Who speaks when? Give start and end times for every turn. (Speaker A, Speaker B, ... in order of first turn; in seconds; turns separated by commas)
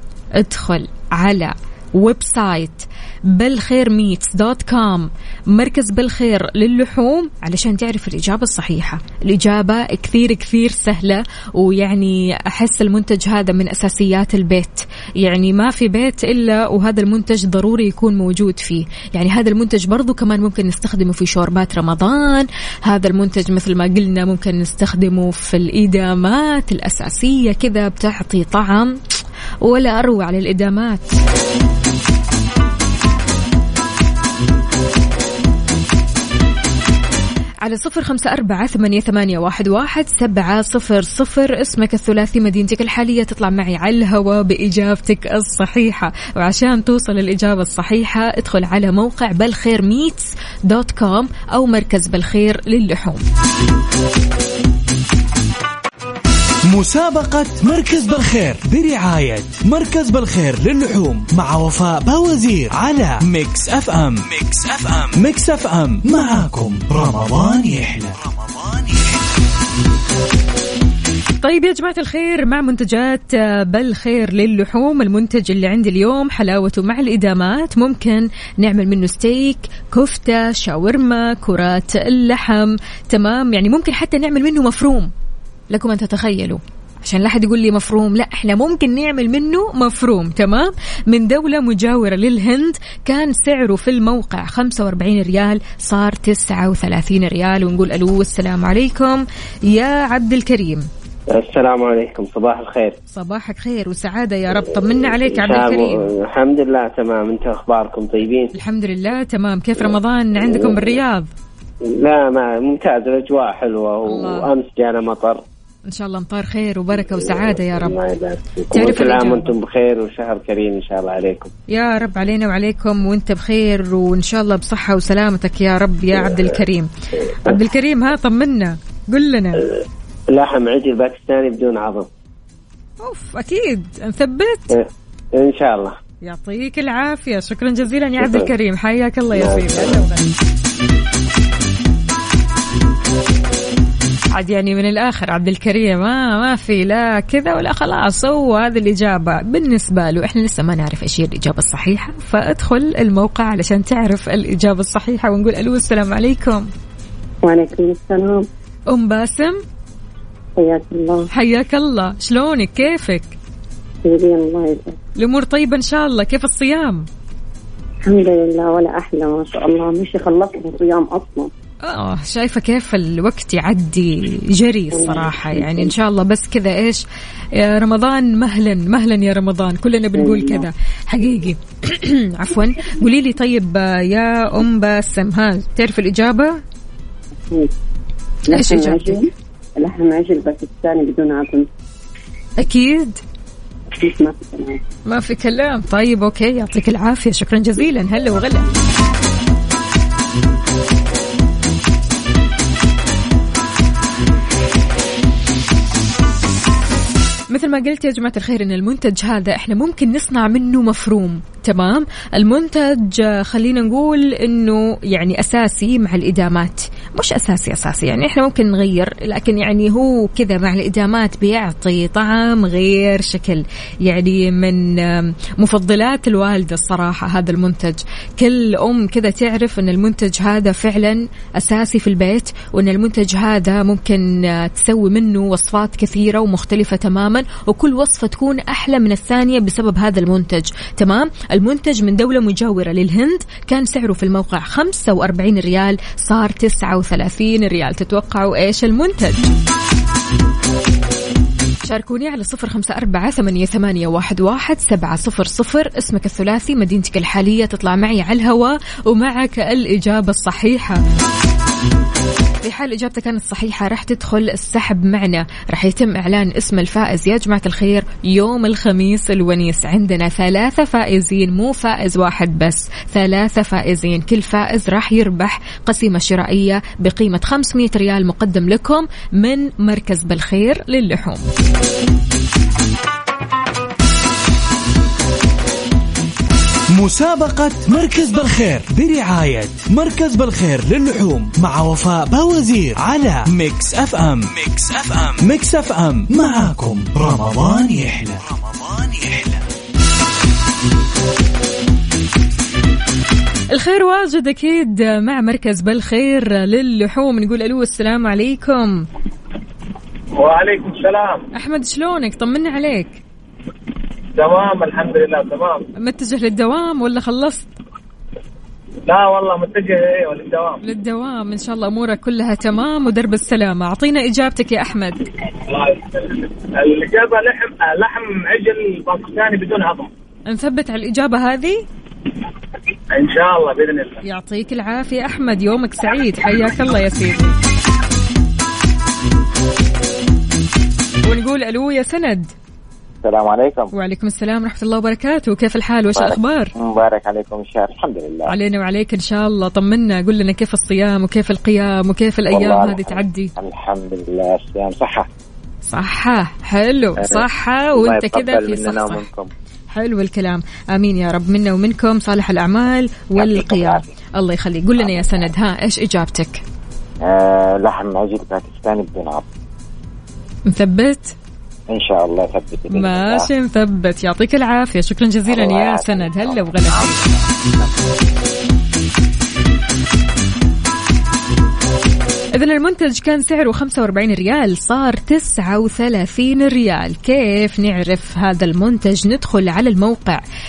Speaker A: 0.4-29.0, Speaker A: 29.6-31.1, Speaker A: 37.6-53.2, Speaker B: 56.7-68.8, Speaker A: 71.4-85.1, Speaker A: 85.7-100.9, Speaker C: 101.3-103.0, Speaker A: 103.1-106.0, Speaker C: 105.2-108.5, Speaker A: 108.5-111.3, Speaker C: 110.4-110.9, Speaker C: 111.8-115.4, Speaker A: 114.0-114.5, Speaker A: 115.9-118.0, Speaker C: 117.3-121.5, Speaker A: 118.7-119.5, Speaker A: 121.7-126.9, Speaker A: 127.4-129.7, Speaker C: 130.3-132.1, Speaker A: 133.0-134.7, Speaker C: 134.7-136.0, Speaker A: 136.2-140.3, Speaker C: 138.2-138.5, Speaker C: 139.3-140.0, Speaker A: 144.3-156.7, Speaker D: 157.4-158.4, Speaker A: 158.9-159.6, Speaker D: 160.6-161.3, Speaker A: 161.3-163.3, Speaker D: 164.0-165.0, Speaker A: 165.2-167.1, Speaker D: 168.0-171.5, Speaker A: 171.8-177.0, Speaker D: 174.9-175.9, Speaker A: 177.5-186.6, Speaker D: 180.2-180.7, Speaker D: 188.5-191.7, Speaker A: 188.5-189.2, Speaker A: 192.6-193.2, Speaker D: 193.9-194.8, Speaker A: 195.1-198.7, Speaker A: 207.5-249.5, Speaker A: 251.8-261.0, Speaker A: 262.6-281.4, Speaker B: 286.9-299.6, Speaker A: 303.7-309.1, Speaker E: 310.4-311.4, Speaker A: 311.5-313.2, Speaker E: 314.4-315.9, Speaker A: 316.0-317.7, Speaker E: 319.1-320.8, Speaker A: 320.8-325.2, Speaker E: 325.7-330.1, Speaker A: 330.5-331.8, Speaker E: 333.1-334.2, Speaker A: 334.2-337.6, Speaker A: 341.2-342.5, Speaker F: 343.2-343.9, Speaker A: 343.9-346.7, Speaker F: 346.1-348.5, Speaker A: 348.5-353.5, Speaker F: 352.5-355.3, Speaker A: 355.9-359.2, Speaker F: 357.2-359.5, Speaker A: 359.9-366.6, Speaker F: 363.4-364.1, Speaker F: 365.0-365.4, Speaker F: 367.2-369.4, Speaker A: 370.7-371.3, Speaker F: 371.9-373.5, Speaker A: 372.9-377.1, Speaker F: 375.5-377.9, Speaker A: 382.6-390.4